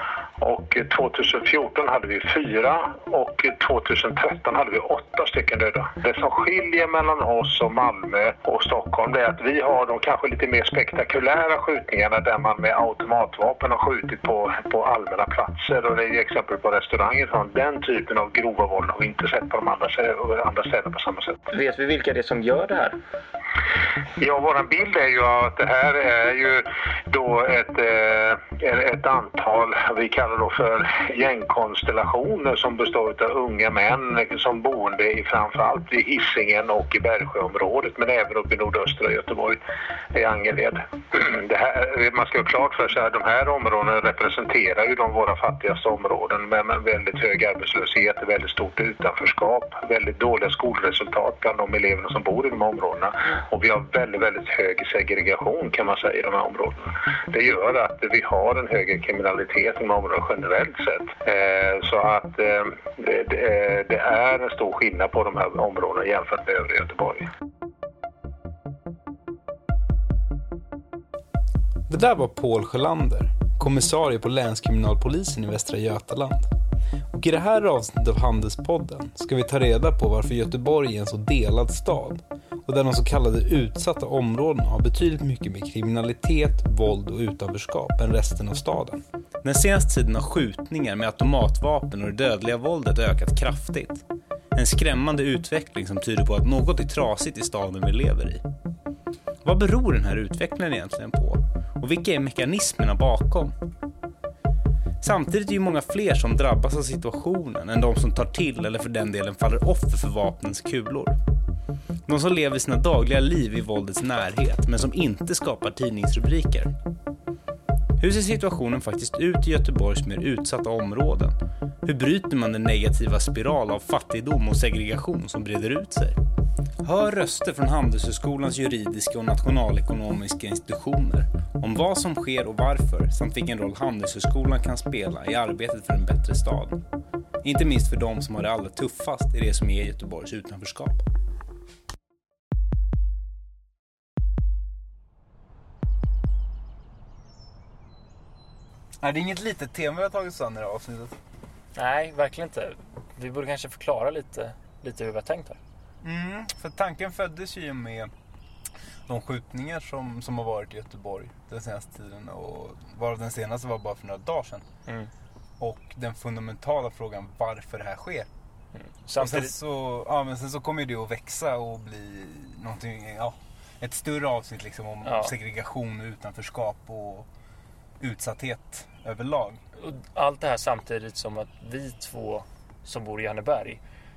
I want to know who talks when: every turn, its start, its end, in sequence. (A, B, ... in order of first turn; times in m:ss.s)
0:00.4-0:21.4 A
0:21.5-0:23.0 B
0:24.2-0:39.6 A
0:40.1-1:07.3 A
1:11.9-1:16.5 C
1:17.1-1:34.0 C
1:34.5-1:38.4 C
1:39.4-1:43.5 C
1:45.0-1:51.2 C
1:52.1-1:56.7 C
1:58.0-2:06.2 C
2:06.8-2:16.8 C
2:17.4-2:21.0 C
2:29.0-2:31.2 C
2:31.7-2:35.6 B
2:36.0-2:38.1 C
2:39.1-2:44.6 C
2:45.6-2:48.3 C
2:48.8-2:49.5 B
2:49.1-2:57.3 C
2:55.0-2:55.3 B
2:58.0-2:59.6 C
2:59.8-3:03.8 B